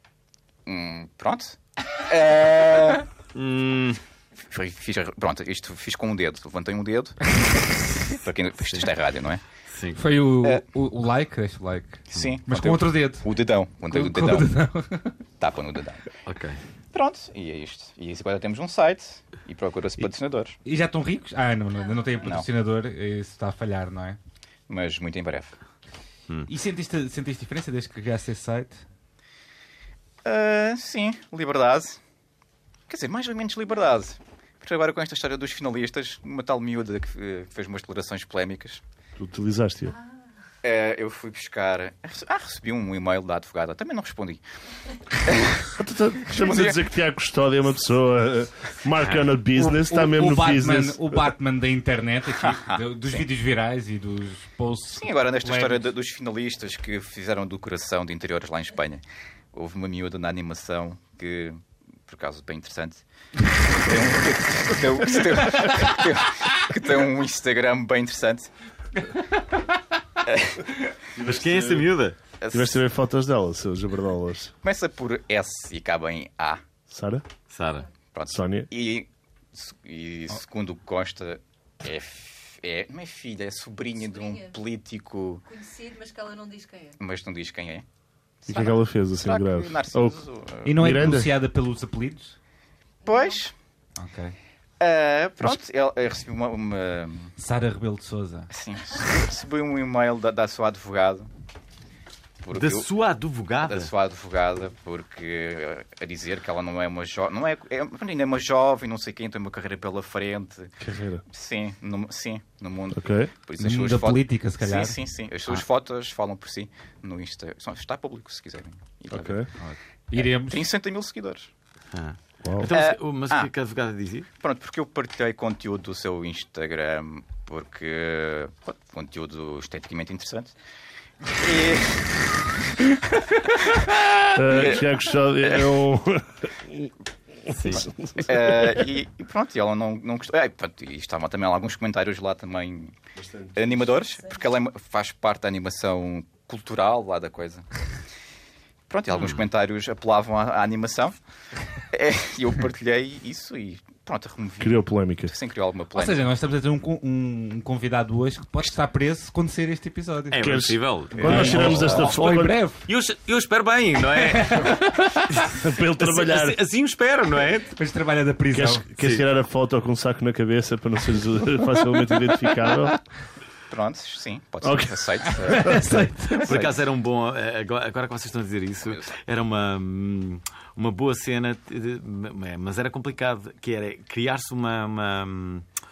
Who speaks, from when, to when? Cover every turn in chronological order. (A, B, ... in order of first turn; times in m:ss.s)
0:00.6-0:03.1 A
0:03.4-0:04.0 B
0:04.5-0:07.3 A
0:08.1-0:09.4 A
0:09.7-0:10.0 B
0:09.9-0:13.3 C
0:12.1-0:14.6 A
0:13.9-0:15.1 C
0:15.4-0:16.1 A
0:16.3-0:16.6 B
0:16.9-0:20.6 A
0:20.6-0:24.2 C
0:22.2-0:22.5 A
0:24.7-0:25.6 A
0:26.5-0:28.8 C
0:30.2-0:32.0 A
0:32.9-0:38.8 A
0:39.2-0:39.9 D
0:40.6-0:44.4 A
0:45.2-0:45.7 A
0:45.7-0:51.3 D
0:46.3-0:46.8 A
0:49.6-0:55.9 C
0:52.4-0:53.3 A
0:54.9-1:03.0 A
1:03.7-1:08.5 A
1:10.3-1:10.7 A
1:11.2-1:11.9 D
1:11.2-1:12.2 B
1:12.4-1:12.8 A
1:12.5-1:14.5 D
1:14.6-1:16.6 A
1:16.9-1:17.2 D
1:17.5-1:17.9 B
1:18.1-1:25.4 A
1:18.3-1:18.7 D
1:24.0-1:24.6 E
1:25.4-1:27.0 E
1:27.0-1:27.8 A
1:28.4-1:30.9 A
1:28.5-1:30.2 D
1:30.6-1:32.4 C
1:30.7-1:31.4 D
1:33.0-1:33.4 E
1:33.0-1:33.5 A
1:34.0-1:34.4 C
1:34.8-1:37.3 A
1:37.4-1:38.5 C
1:38.5-1:41.3 A
1:42.4-1:42.9 A
1:42.5-1:43.9 B
1:43.6-1:50.7 A
1:50.8-1:51.2 D
1:51.3-1:59.5 A
1:52.9-1:53.3 D
1:53.6-1:55.0 C
1:59.1-1:59.5 D
1:59.6-2:00.6 C
2:00.2-2:01.5 A
2:01.9-2:04.3 B
2:02.4-2:02.7 D
2:02.7-2:03.5 A
2:04.4-2:10.6 A
2:11.2-2:12.4 A
2:13.7-2:14.9 A
2:14.4-2:16.9 D
2:15.4-2:15.7 A
2:17.4-2:18.9 D
2:17.5-2:17.9 B
2:17.7-2:23.0 A
2:23.2-2:23.9 D
2:23.6-2:27.7 A
2:28.9-2:31.2 A
2:29.1-2:29.4 B
2:31.9-2:36.3 A
2:34.6-2:35.3 D
2:35.9-2:40.4 C
2:40.3-2:42.3 B
2:40.4-2:42.6 D
2:41.2-2:42.8 C
2:42.9-2:47.7 B
2:44.2-2:45.3 C
2:45.5-2:46.6 D
2:47.7-2:48.8 C
2:48.5-2:53.0 D
2:53.7-2:56.8 A
2:54.6-2:56.0 D
2:55.4-2:56.5 C
2:56.4-3:05.6 B
2:58.8-2:59.1 A